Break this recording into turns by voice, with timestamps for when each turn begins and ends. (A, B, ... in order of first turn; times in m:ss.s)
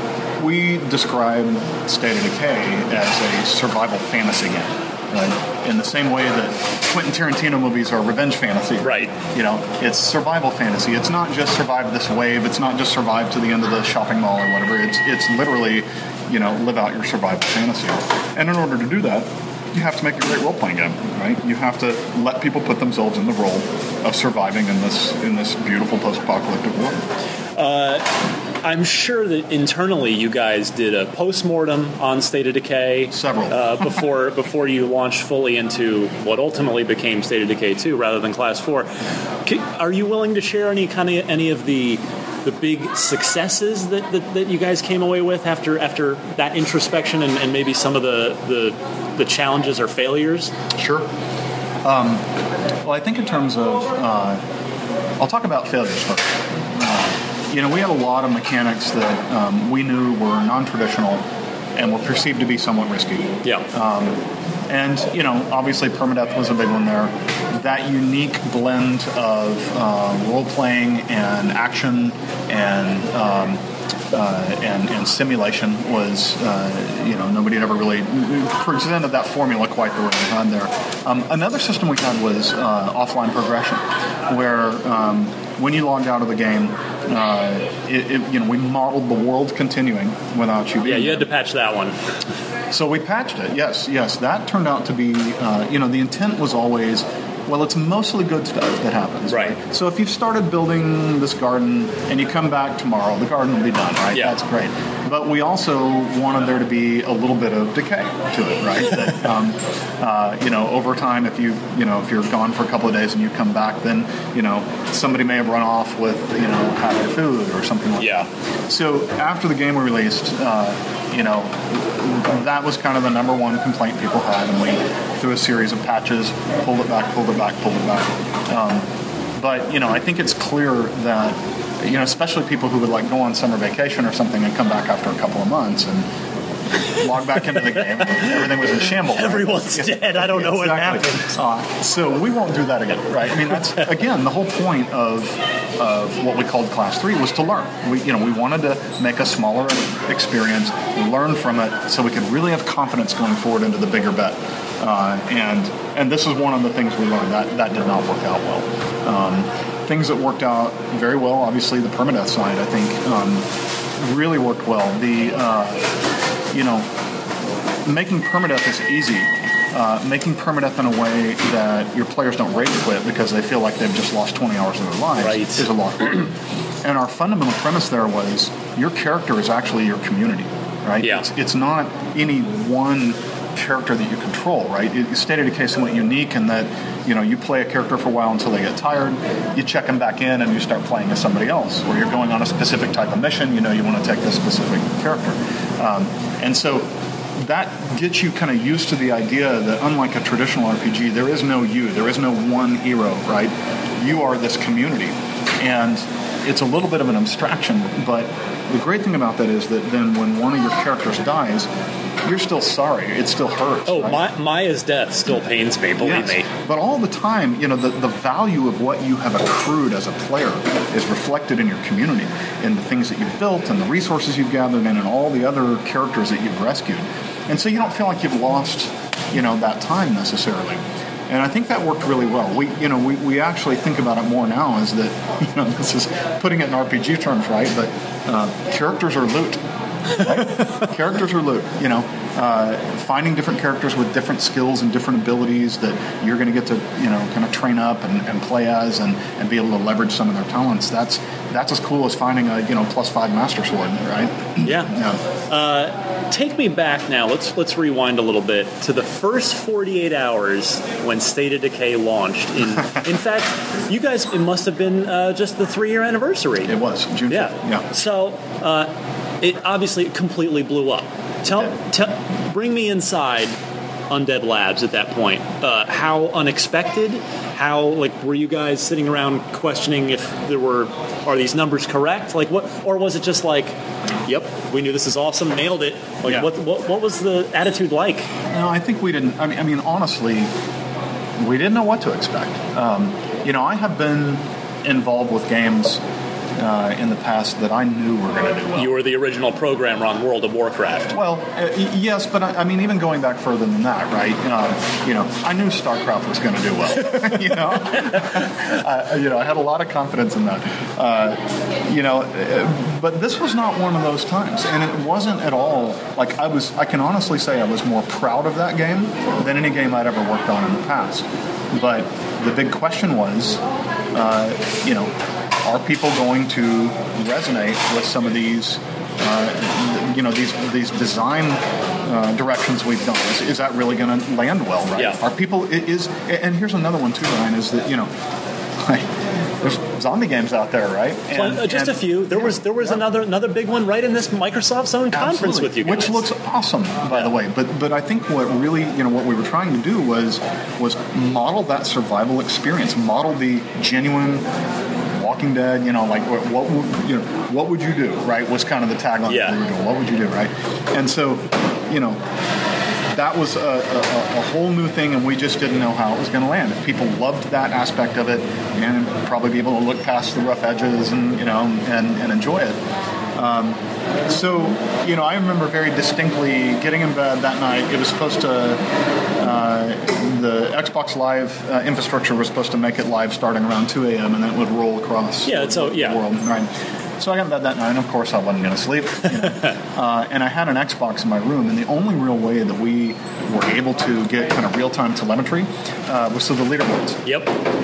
0:00.4-0:27.0 A
0:08.8-0:09.1 B
0:27.6-0:28.1 B
0:28.6-0:38.9 B
0:33.1-0:33.8 A
0:39.4-0:50.5 B
0:50.8-0:51.1 A
0:51.8-0:52.2 A
0:52.8-0:54.4 A
0:55.2-1:01.2 A
1:01.8-1:04.2 A
1:04.7-1:13.6 A
1:14.1-1:31.3 A
1:30.8-1:32.0 B
1:32.7-2:16.1 A
1:39.3-1:39.6 B
1:58.0-1:58.3 B
2:16.9-2:43.4 A
2:19.1-2:21.3 B
2:44.0-2:45.9 A
2:46.5-2:46.9 A
2:47.8-3:31.7 A
2:55.2-2:55.6 B
3:32.2-3:34.2 A
3:33.8-3:36.5 B
3:36.0-3:59.6 A
4:00.1-4:15.2 A
4:14.6-4:14.9 B
4:15.5-4:26.7 B
4:26.6-4:27.8 A
4:27.3-4:33.6 B
4:34.1-4:48.3 B
4:48.5-4:50.5 A
4:51.4-4:56.0 A
4:56.6-4:58.9 A
4:58.7-5:01.2 B
5:01.1-5:23.6 A
5:24.1-5:25.1 A
5:25.6-5:38.1 A
5:38.8-5:43.0 A
5:41.3-5:46.2 B
5:45.1-5:54.4 A
5:55.1-6:02.2 A
5:59.3-5:59.6 B
6:03.1-6:12.8 A
6:13.3-6:18.8 A
6:19.4-6:37.2 A
6:25.4-6:26.2 B
6:37.2-6:37.5 B